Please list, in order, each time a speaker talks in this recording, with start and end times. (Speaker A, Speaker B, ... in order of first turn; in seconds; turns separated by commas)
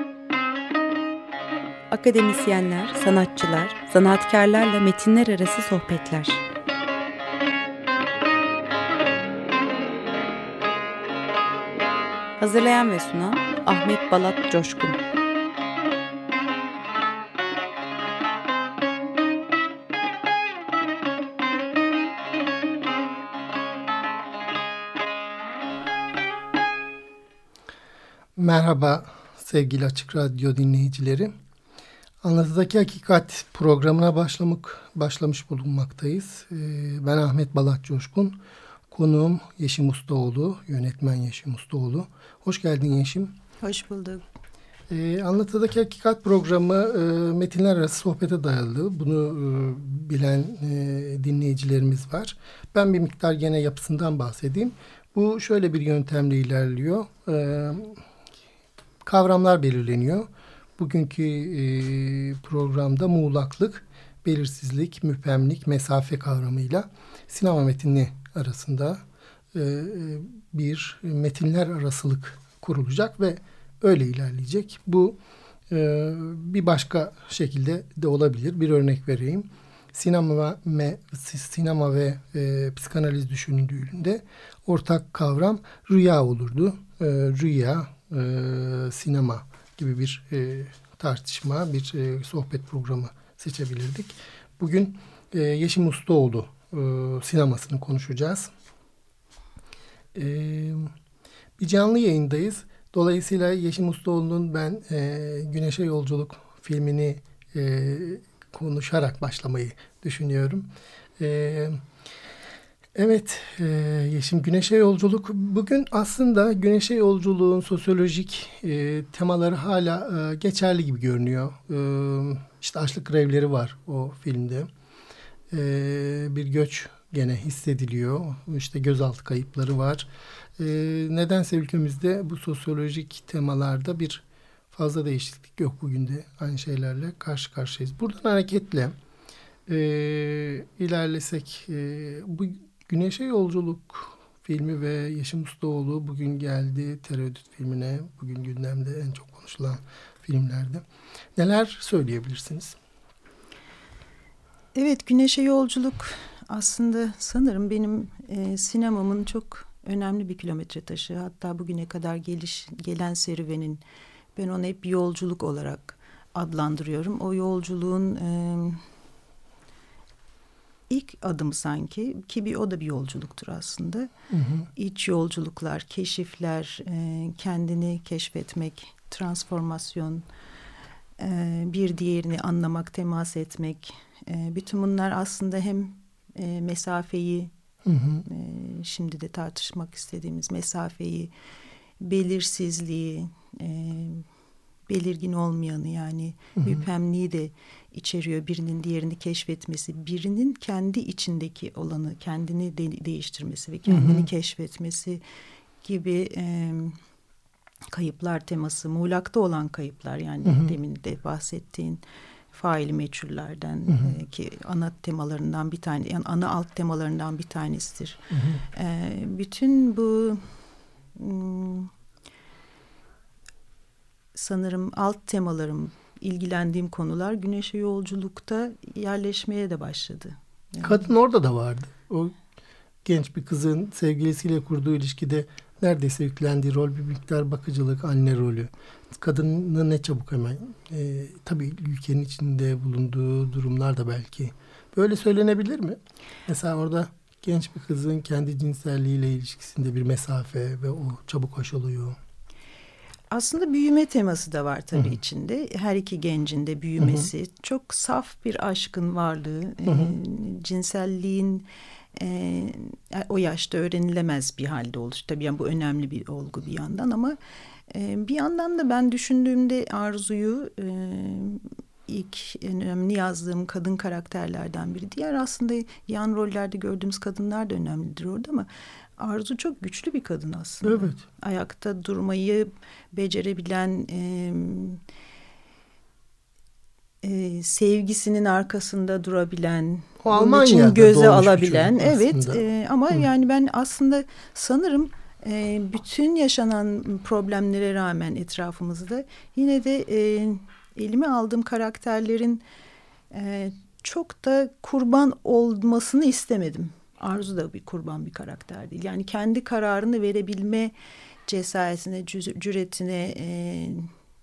Speaker A: 1.9-6.4, Speaker A: 12.4-15.0, Speaker B: 28.4-31.3, Speaker B: 32.2-38.4, Speaker B: 38.9-43.4, Speaker C: 43.6-44.2, Speaker B: 44.9-58.0, Speaker B: 59.0-69.0, Speaker B: 69.5-98.5, Speaker B: 100.2-100.9, Speaker B: 101.6-111.8, Speaker B: 113.0-124.7, Speaker B: 125.5-138.9, Speaker B: 139.7-150.8, Speaker B: 151.4-152.8, Speaker C: 154.8-163.8, Speaker C: 164.4-168.8, Speaker C: 170.9-174.1, Speaker B: 174.3-174.7, Speaker C: 174.8-180.3, Speaker C: 181.2-187.5, Speaker B: 187.8-188.2, Speaker C: 188.2-191.3, Speaker C: 192.0-194.3, Speaker C: 194.9-205.2, Speaker B: 196.6-196.8, Speaker B: 203.9-204.3, Speaker C: 205.8-207.0, Speaker C: 207.9-220.5, Speaker B: 210.5-210.7, Speaker B: 218.3-218.6, Speaker C: 221.2-221.9, Speaker C: 224.3-231.1, Speaker B: 230.8-232.3, Speaker B: 233.1-252.2, Speaker C: 253.3-267.4, Speaker B: 257.0-257.3, Speaker B: 259.9-260.1, Speaker C: 267.9-285.0, Speaker B: 280.8-281.2, Speaker C: 287.2-302.6, Speaker B: 290.2-292.6, Speaker C: 303.3-310.9, Speaker C: 311.5-314.1